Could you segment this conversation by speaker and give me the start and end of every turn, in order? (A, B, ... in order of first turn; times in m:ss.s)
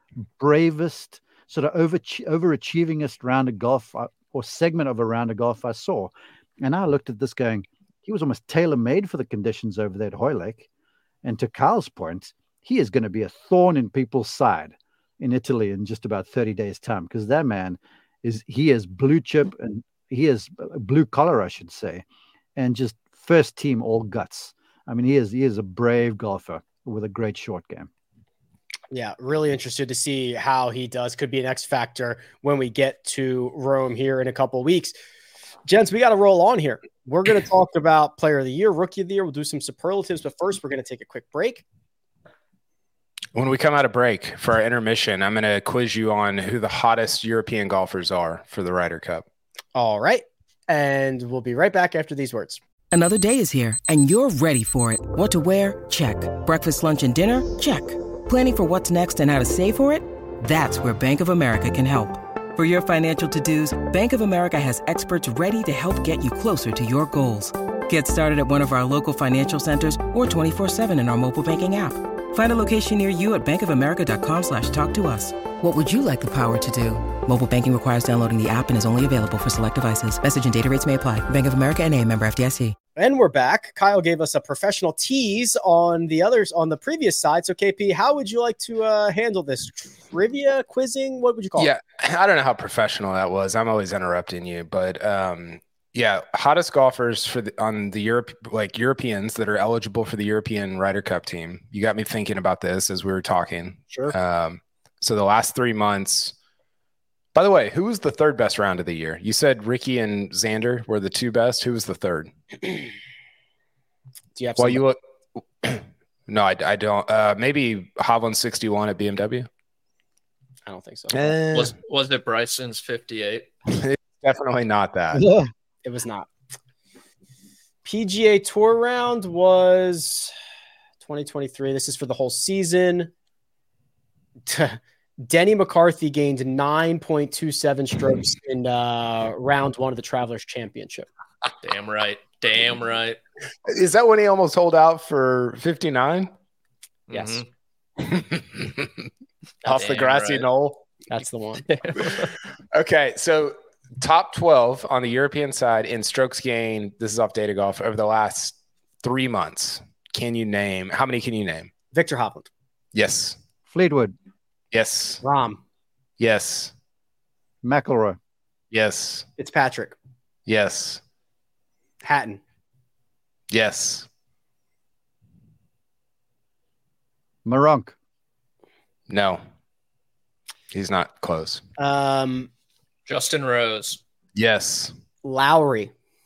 0:00.4-0:10.7 A
0:11.2-0:22.0 A
0:22.6-0:27.9 A
0:28.9-0:34.9 B
0:35.6-0:41.6 B
0:43.4-0:49.2 C
0:49.8-0:52.6 B
0:52.9-1:22.8 D
1:23.0-1:31.7 B
1:31.6-1:46.3 C
1:47.4-1:52.3 C
1:54.4-1:54.8 B
1:54.6-1:55.0 C
1:55.6-1:59.5 C
2:00.7-2:01.4 B
2:01.1-2:01.7 C
2:01.5-2:03.5 E
2:03.7-2:05.3 C
2:05.1-2:05.5 A
2:05.8-2:06.3 B
2:07.8-2:10.3 B
2:11.0-2:13.1 B
2:14.5-2:21.1 B
2:21.6-2:23.2 E
2:23.7-2:26.3 C
2:27.1-2:27.5 E
2:27.1-2:27.4 B
2:28.0-2:29.1 C
2:29.6-2:31.7 B
2:29.7-2:30.5 E
2:31.6-2:32.3 E
2:32.7-2:41.7 C
2:41.9-2:42.5 B
2:42.9-2:43.4 C
2:43.7-2:44.1 A
2:44.7-2:45.2 C
2:45.2-2:45.6 B
2:46.2-2:46.7 C
2:47.6-2:48.2 A
2:48.7-2:49.3 C
2:49.4-2:50.0 B
2:50.5-2:51.0 C
2:52.0-2:52.4 B
2:53.5-2:54.1 C
2:57.4-2:58.0 A
2:59.1-2:59.4 C
3:00.7-3:01.6 C
3:01.8-3:02.5 B
3:03.1-3:04.0 E
3:04.4-3:04.9 C
3:05.2-3:05.9 B